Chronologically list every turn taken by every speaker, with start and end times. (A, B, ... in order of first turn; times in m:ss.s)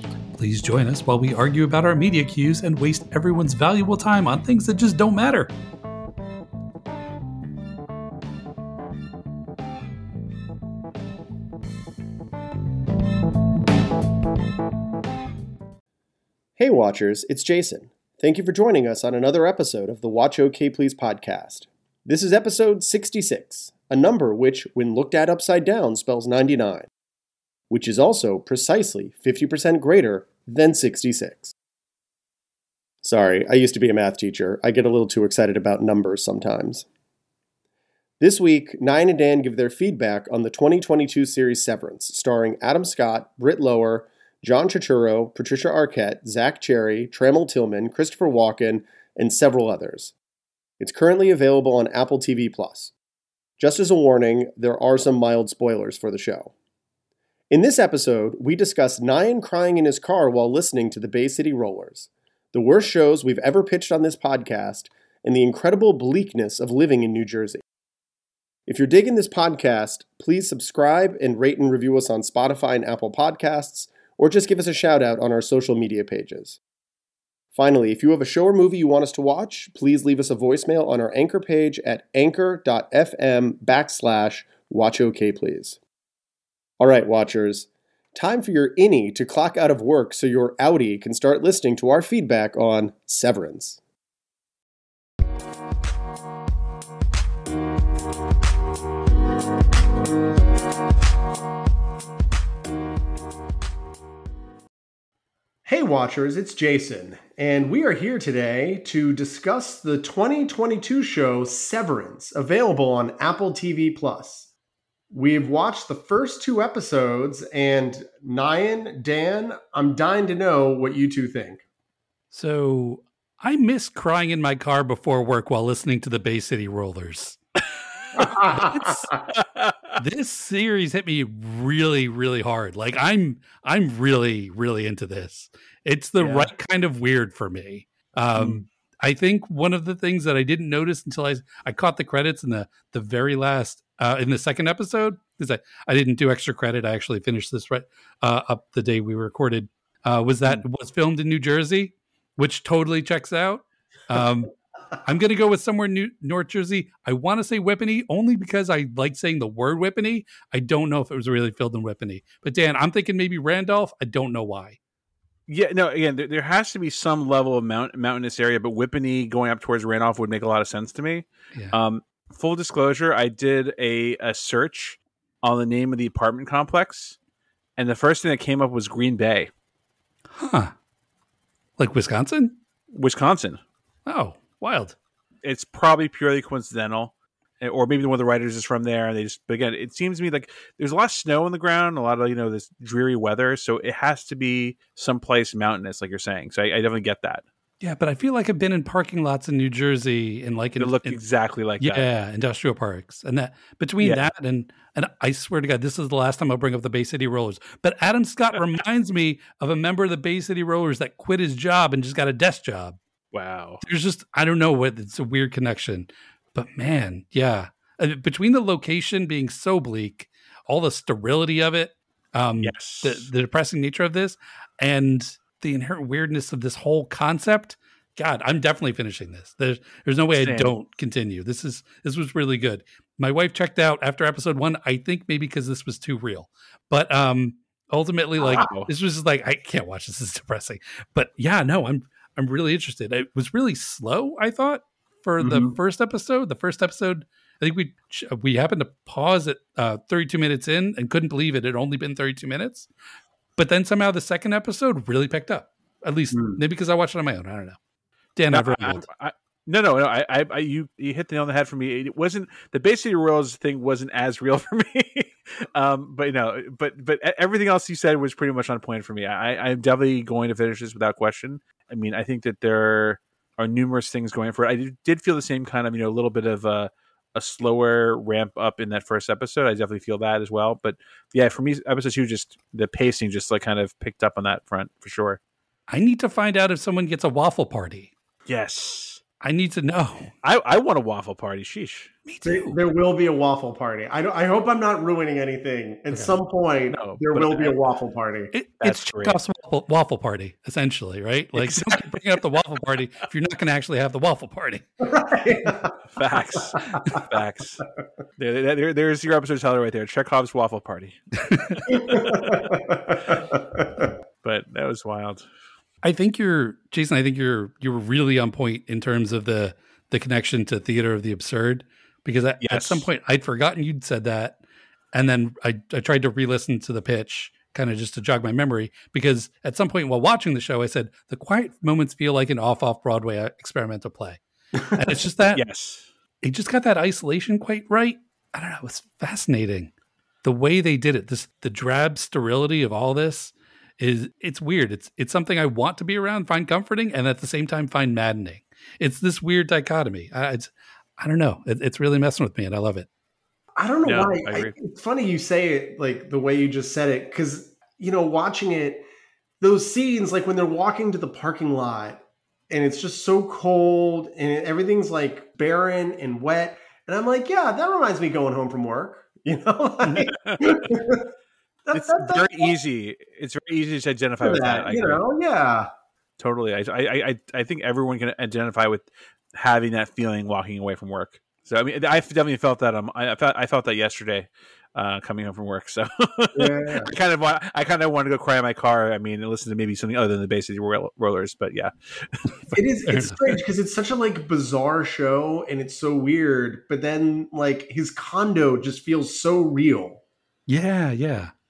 0:00.4-0:05.5 A
0:16.6-0:26.9 B
0:27.7-0:31.5 B
0:33.0-0:36.8 B
0:38.2-0:50.1 B
0:50.8-0:52.9 B
0:53.6-0:56.5 B
0:57.5-1:07.6 B
1:08.7-1:16.6 B
1:17.5-1:25.8 B
1:26.8-1:33.8 B
1:45.6-1:54.5 B
1:55.1-2:01.6 B
2:02.3-2:07.4 A
2:08.2-2:08.9 B
2:08.2-2:09.1 A
2:09.3-2:10.0 C
2:10.0-2:34.5 A
2:16.2-2:16.5 C
2:18.4-2:18.6 C
2:35.0-2:44.8 A
2:45.5-2:57.2 C
2:57.8-2:59.5 C
3:00.3-3:00.7 A
3:01.8-3:02.6 A
3:02.9-3:03.6 C
3:04.0-3:05.0 A
3:05.4-3:17.4 C
3:17.8-3:21.2 A
3:20.8-3:22.1 C
3:21.8-3:33.0 A
3:24.0-3:24.3 C
3:33.3-3:33.8 C
3:33.8-4:12.9 A
3:42.6-3:43.3 C
3:50.4-3:50.7 C
3:58.6-3:58.9 C
4:05.4-4:05.8 B
4:13.6-4:17.8 A
4:16.3-4:16.6 B
4:18.4-4:19.0 A
4:18.5-4:45.4 C
4:45.9-4:48.1 A
4:48.4-4:49.2 C
4:49.4-4:50.3 A
4:50.4-4:52.1 C
4:52.2-4:52.8 A
4:52.4-4:58.5 B
4:56.1-4:56.4 A
4:56.9-4:57.8 C
4:58.5-5:04.8 A
4:58.8-4:59.4 C
5:01.5-5:02.4 C
5:05.0-5:06.0 B
5:06.2-5:07.8 C
5:06.7-5:07.2 B
5:08.4-5:11.2 C
5:11.4-5:11.9 A
5:11.9-5:14.1 B
5:11.9-5:12.6 C
5:14.4-5:15.5 C
5:16.0-5:24.6 A
5:22.6-5:23.0 C
5:25.1-5:35.6 A
5:35.5-5:36.1 C
5:36.4-5:39.9 A
5:40.4-5:53.1 A
5:53.8-5:59.0 B
5:54.0-5:54.7 C
5:59.6-6:11.3 B
6:10.2-6:10.9 C
6:11.8-6:12.7 B
6:11.9-6:15.2 C
6:14.4-6:15.9 B
6:16.4-6:32.4 C
6:26.5-6:27.1 B
6:32.7-6:40.2 B
6:33.0-6:33.4 A
6:40.7-6:41.5 A